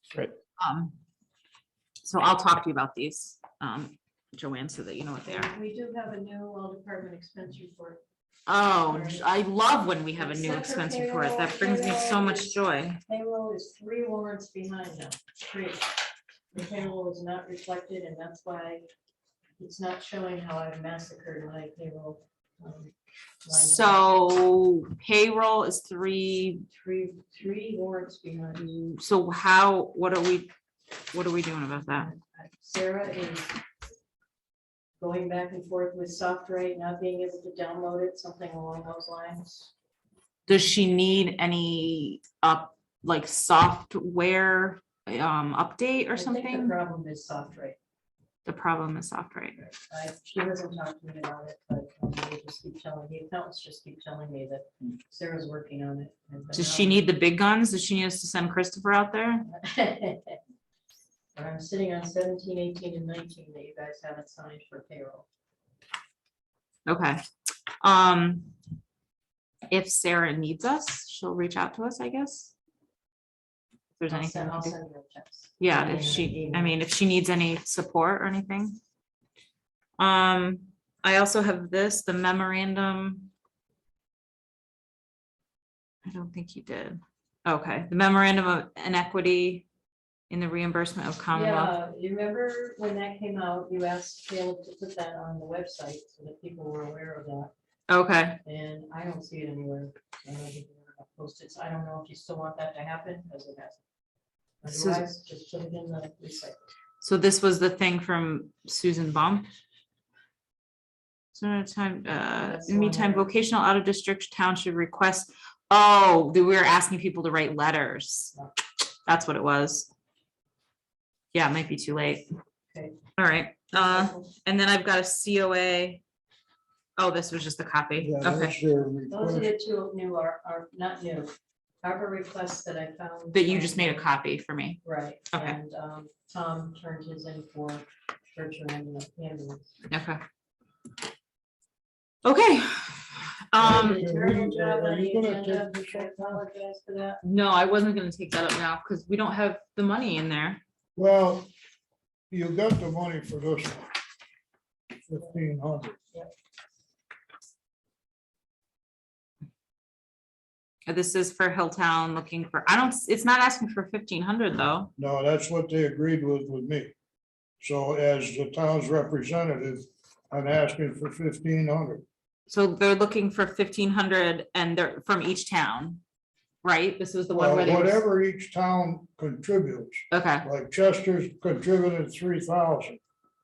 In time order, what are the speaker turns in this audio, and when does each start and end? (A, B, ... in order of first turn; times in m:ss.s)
0:00.6-0:00.9 A
0:02.0-0:05.5 A
0:05.3-0:08.0 B
0:08.5-0:13.0 A
0:08.6-0:09.2 B
0:10.2-0:16.0 B
0:16.5-0:18.8 B
0:19.6-0:22.9 B
0:23.4-0:24.0 B
0:23.5-0:26.6 A
0:26.7-0:28.7 B
0:28.6-0:30.5 A
0:31.1-0:32.1 A
0:31.9-0:33.6 B
0:35.0-0:39.7 B
0:40.5-0:46.8 A
0:46.1-0:47.8 B
0:48.4-0:49.6 A
0:49.6-0:57.1 B
0:56.5-0:59.5 A
0:59.5-1:00.4 B
1:01.3-1:05.2 B
1:06.8-1:07.2 A
1:07.8-1:08.5 A
1:09.7-1:12.5 A
1:14.0-1:14.8 A
1:14.1-1:16.7 B
1:15.6-1:18.8 A
1:20.0-1:23.3 A
1:26.0-1:29.6 A
1:30.3-1:31.7 A
1:31.3-1:37.5 B
1:37.9-1:38.4 A
1:38.4-1:43.8 B
1:44.6-1:46.6 B
1:44.7-1:45.0 A
1:47.0-1:49.5 A
1:51.3-1:58.4 A
1:52.2-1:53.3 B
1:59.0-1:59.9 A
2:01.3-2:02.3 A
2:02.7-2:03.0 B
2:03.1-2:06.0 A
2:03.7-2:04.3 B
2:07.0-2:08.5 A
2:08.0-2:09.5 C
2:09.1-2:14.0 B
2:13.3-2:15.6 A
2:14.8-2:19.7 B
2:19.9-2:20.2 A
2:22.2-2:24.0 A
2:23.6-2:27.2 B
2:23.6-2:26.4 C
2:27.2-2:30.6 A
2:31.0-2:31.5 C
2:32.3-2:33.9 C
2:35.0-2:36.0 C
2:40.9-2:44.9 A
2:45.0-2:46.9 C
2:47.6-2:52.0 C
2:52.5-2:56.0 A
2:56.6-2:58.0 A
2:57.3-3:03.0 C
3:00.1-3:00.5 A